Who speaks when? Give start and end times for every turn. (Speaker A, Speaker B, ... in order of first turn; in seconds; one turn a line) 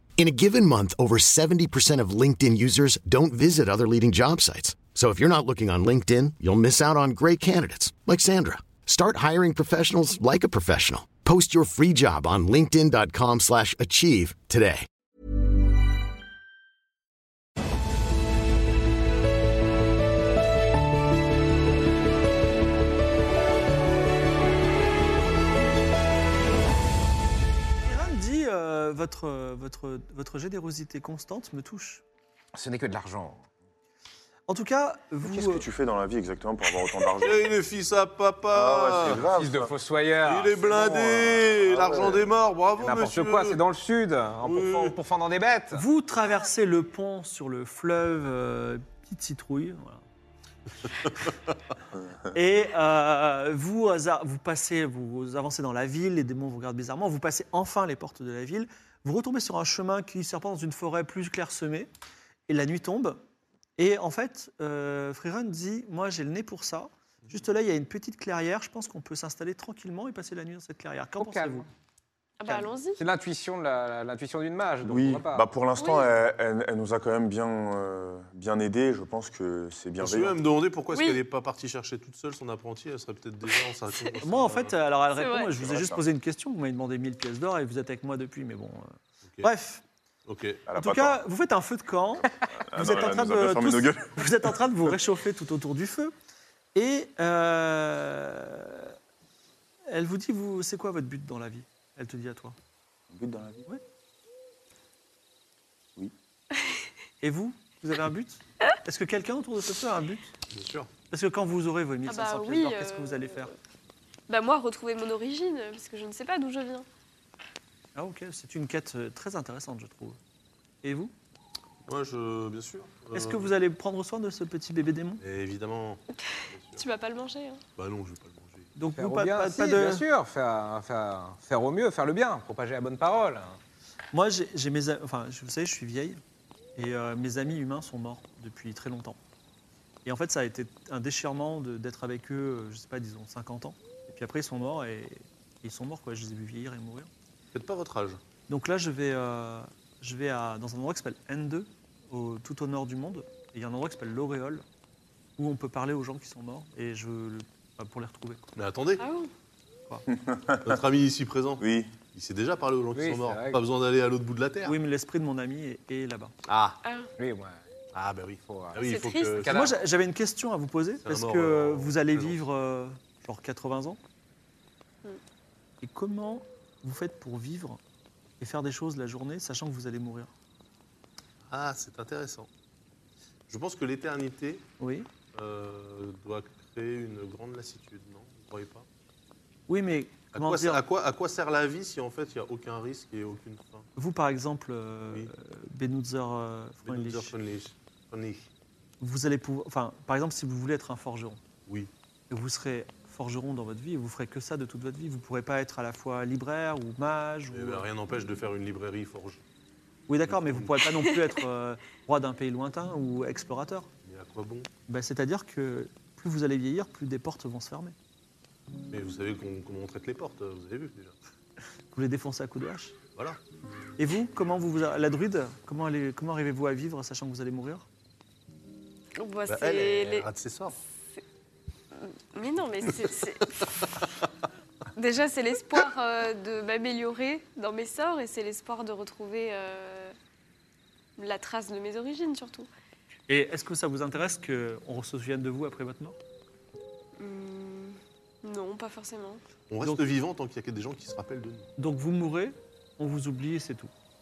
Speaker A: 0.2-14.9
Speaker B: 27.8-32.0
Speaker C: 32.5-33.5
Speaker B: 34.5-35.6
Speaker D: 35.2-37.5
Speaker E: 37.2-39.3
Speaker D: 38.5-39.7
Speaker C: 39.0-42.2
Speaker E: 40.2-43.6
Speaker D: 40.7-42.2
Speaker C: 42.8-45.8
Speaker E: 44.4-45.0
Speaker B: 45.7-50.0
Speaker B: 52.3-61.9
Speaker B: 62.5-63.2
Speaker B: 63.8-71.7
Speaker C: 71.2-71.7
Speaker F: 72.4-73.0
Speaker C: 72.5-75.4
Speaker D: 74.8-80.4
Speaker F: 75.8-76.1
Speaker E: 80.0-84.7
Speaker F: 80.9-81.2
Speaker B: 84.2-89.8
Speaker F: 85.2-85.5
Speaker D: 85.6-86.0
Speaker E: 90.2-90.6
Speaker D: 90.7-91.2
Speaker B: 90.8-96.1
Speaker D: 92.4-94.5
Speaker B: 96.7-98.9
Speaker B: 99.9-102.5
Speaker D: 103.1-103.7
Speaker B: 107.2-110.3
Speaker E: 110.5-110.9
Speaker B: 111.1-113.5
Speaker F: 112.1-113.5
Speaker F: 114.3-116.8
Speaker B: 118.0-120.2
Speaker B: 120.8-121.1
Speaker E: 121.8-123.5
Speaker B: 123.1-125.2
Speaker E: 125.2-126.0
Speaker E: 126.5-126.8
Speaker F: 126.8-127.6
Speaker E: 127.8-128.7
Speaker B: 128.8-130.0
Speaker C: 129.0-133.6
Speaker B: 134.1-136.2
Speaker B: 136.8-139.2
Speaker B: 140.0-147.1
Speaker E: 147.5-148.2
Speaker B: 148.5-154.6
Speaker B: 155.4-158.5
Speaker E: 158.6-159.0
Speaker F: 159.0-159.3
Speaker D: 160.1-160.8
Speaker E: 160.6-164.8
Speaker D: 161.6-162.0
Speaker C: 162.9-163.6
Speaker B: 164.6-166.3
Speaker E: 166.5-166.8
Speaker F: 166.8-167.1
Speaker C: 167.2-167.6
Speaker E: 167.9-169.8
Speaker C: 168.4-168.8
Speaker F: 168.8-169.4
Speaker C: 169.4-169.8
Speaker B: 169.4-174.0
Speaker E: 171.0-172.4
Speaker B: 175.8-177.8
Speaker B: 178.4-180.3
Speaker E: 181.5-182.5
Speaker E: 183.5-184.6
Speaker B: 184.8-185.1
Speaker E: 185.3-188.9
Speaker B: 189.7-190.8
Speaker E: 190.3-193.9
Speaker B: 193.9-197.3
Speaker E: 195.1-195.3
Speaker E: 196.8-198.5
Speaker B: 199.0-201.4
Speaker B: 202.3-207.9
Speaker E: 207.5-209.4
Speaker B: 210.1-213.9
Speaker E: 210.3-210.8
Speaker E: 214.0-214.7
Speaker B: 214.9-217.9
Speaker E: 218.9-221.1
Speaker B: 221.9-222.9
Speaker B: 224.0-227.8
Speaker F: 229.2-230.3
Speaker E: 229.5-230.8
Speaker F: 231.9-234.0
Speaker F: 234.9-240.1
Speaker F: 241.2-242.7
Speaker B: 243.3-246.2
Speaker F: 247.2-249.4
Speaker E: 249.7-251.7
Speaker B: 251.8-253.9